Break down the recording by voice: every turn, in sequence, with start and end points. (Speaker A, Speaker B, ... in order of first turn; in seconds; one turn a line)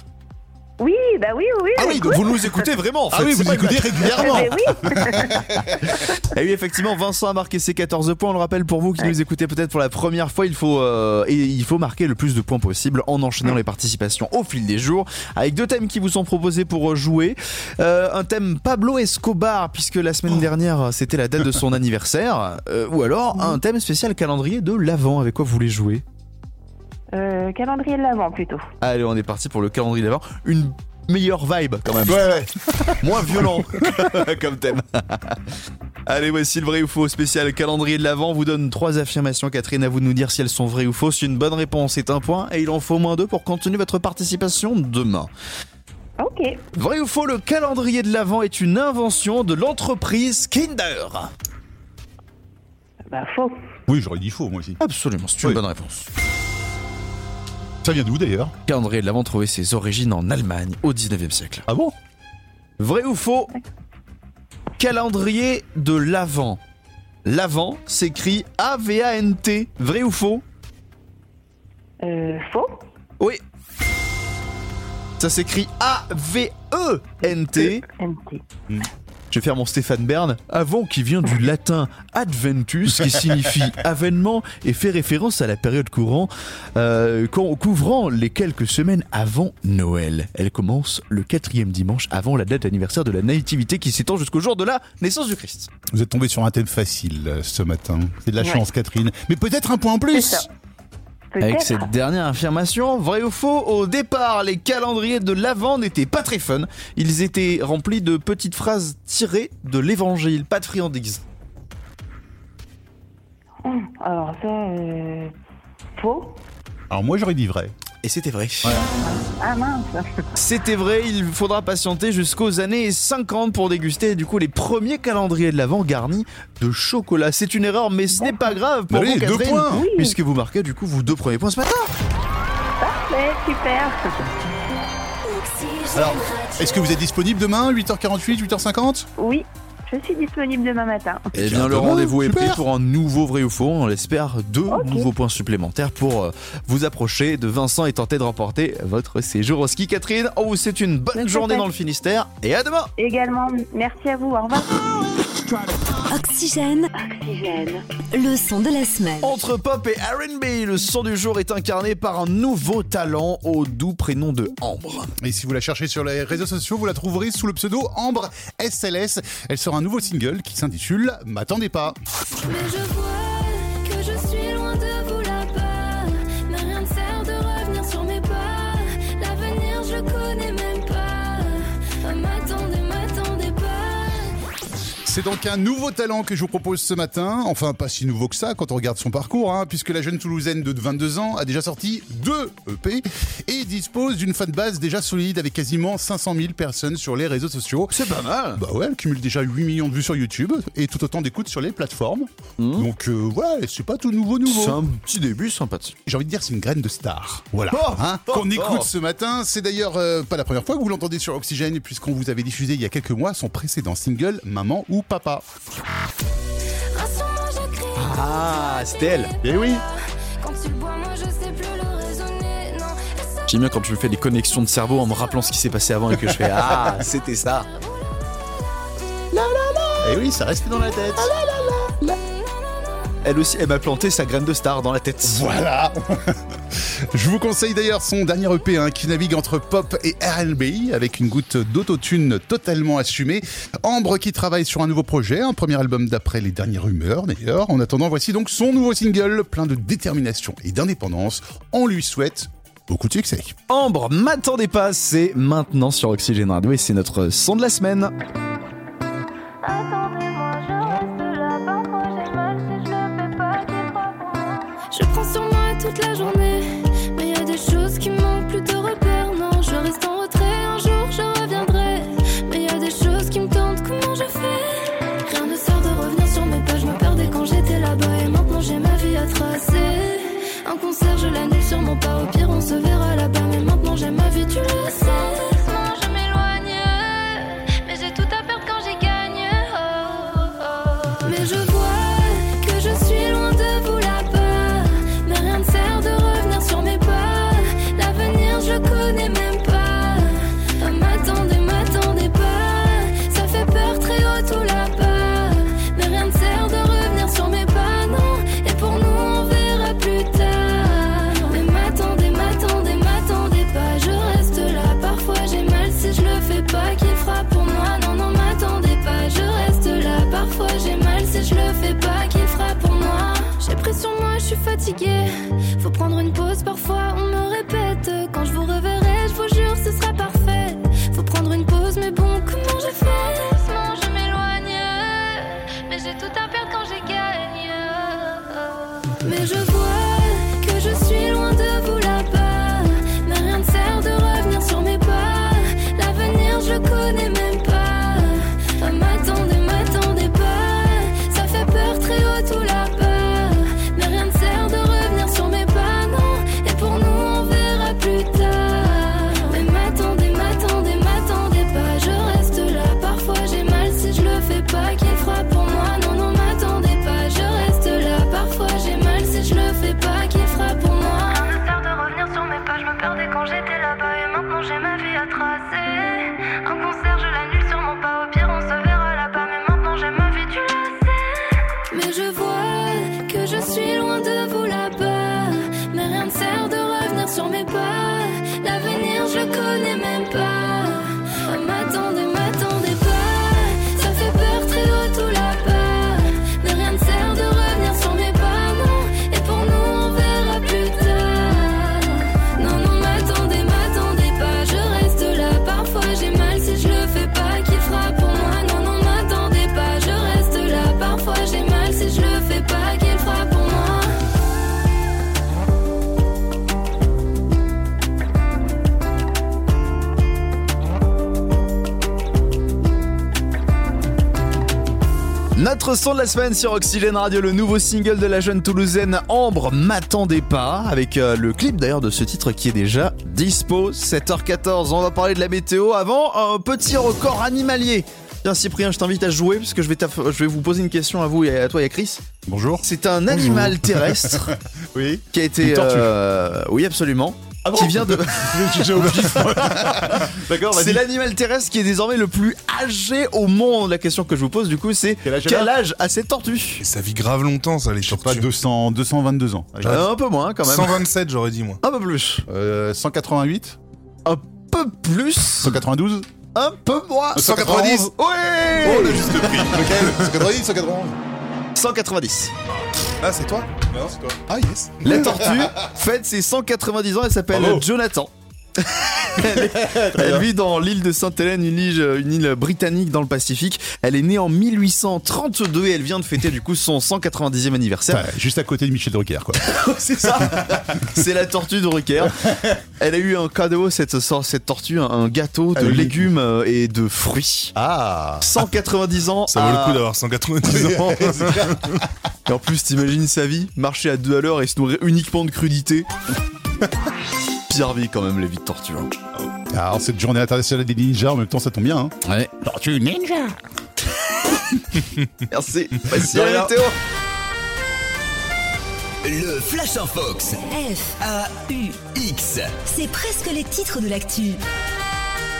Speaker A: 0.8-2.5
Speaker B: 1.8-4.5
Speaker C: 3.1-5.5
Speaker A: 4.2-5.6
Speaker B: 5.9-26.0
Speaker A: 27.1-28.7
Speaker B: 28.8-32.3
Speaker C: 32.0-34.1
Speaker B: 33.0-35.4
Speaker B: 36.1-45.3
Speaker A: 46.2-46.6
Speaker B: 46.7-51.3
Speaker A: 53.1-53.5
Speaker C: 53.9-54.8
Speaker B: 54.8-56.1
Speaker C: 57.8-58.5
Speaker B: 58.7-61.7
Speaker C: 61.7-62.0
Speaker B: 62.8-63.5
Speaker B: 64.8-66.6
Speaker B: 67.2-70.4
Speaker A: 72.0-72.8
Speaker B: 75.2-77.8
Speaker A: 77.9-78.4
Speaker B: 79.3-95.7
Speaker C: 95.9-100.5
Speaker A: 100.1-100.5
Speaker A: 101.3-101.9
Speaker B: 101.4-111.2
Speaker A: 113.6-115.3
Speaker A: 116.0-116.4
Speaker C: 116.9-117.8
Speaker B: 118.0-118.8
Speaker A: 119.0-120.3
Speaker B: 120.4-131.9
Speaker A: 128.1-128.6
Speaker C: 128.9-129.9
Speaker A: 129.7-130.2
Speaker A: 132.8-134.2
Speaker D: 135.2-137.0
Speaker C: 136.0-139.1
Speaker A: 139.2-141.3
Speaker C: 141.3-142.6
Speaker B: 141.3-152.9
Speaker A: 144.7-145.1
Speaker A: 151.2-151.7
Speaker A: 153.0-154.9
Speaker D: 156.1-156.9
Speaker A: 156.9-157.8
Speaker D: 158.1-159.4
Speaker B: 159.2-165.1
Speaker C: 165.2-172.0
Speaker E: 172.4-184.4
Speaker C: 185.1-197.9
Speaker B: 197.9-198.6
Speaker C: 198.6-204.8
Speaker B: 202.6-202.9
Speaker B: 204.5-206.0
Speaker C: 206.1-215.5
Speaker B: 207.7-208.9
Speaker E: 216.9-223.4
Speaker B: 218.0-219.3
Speaker C: 219.4-219.8
Speaker B: 223.5-227.7
Speaker C: 226.3-227.1
Speaker B: 229.3-230.2
Speaker C: 230.0-231.3
Speaker B: 231.2-232.0
Speaker E: 232.2-232.9
Speaker B: 233.2-235.4
Speaker C: 235.2-253.6
Speaker B: 253.7-258.1
Speaker E: 259.6-414.2
Speaker B: 425.6-442.2
Speaker C: 442.5-446.1
Speaker B: 442.8-444.5
Speaker B: 445.3-456.9
Speaker C: 447.6-451.1
Speaker C: 455.2-455.7
Speaker F: 456.8-458.4
Speaker C: 458.0-460.1
Speaker B: 459.9-461.0
Speaker F: 460.6-461.8
Speaker B: 461.8-462.5
Speaker C: 462.5-463.8
Speaker B: 464.2-465.8
Speaker C: 465.6-466.3
Speaker B: 466.6-469.7
Speaker C: 467.4-468.1
Speaker F: 467.6-468.1
Speaker C: 468.7-471.2
Speaker F: 468.9-470.2
Speaker B: 471.8-472.5
Speaker F: 473.2-473.8
Speaker C: 473.9-475.9
Speaker F: 474.5-474.9
Speaker B: 475.0-488.3
Speaker C: 477.5-477.9
Speaker C: 479.4-480.5
Speaker C: 488.1-491.1
Speaker B: 489.6-497.8
Speaker C: 492.2-492.8
Speaker C: 495.8-496.3
Speaker C: 497.8-498.7
Speaker B: 498.4-500.0
Speaker F: 499.5-502.0
Speaker C: 500.6-502.1
Speaker B: 502.5-506.1
Speaker B: 507.7-509.1
Speaker C: 509.4-513.6
Speaker B: 512.2-512.5
Speaker B: 515.5-517.0
Speaker C: 516.1-516.6
Speaker G: 519.2-520.6
Speaker D: 520.6-521.2
Speaker G: 521.2-522.8
Speaker D: 522.9-524.6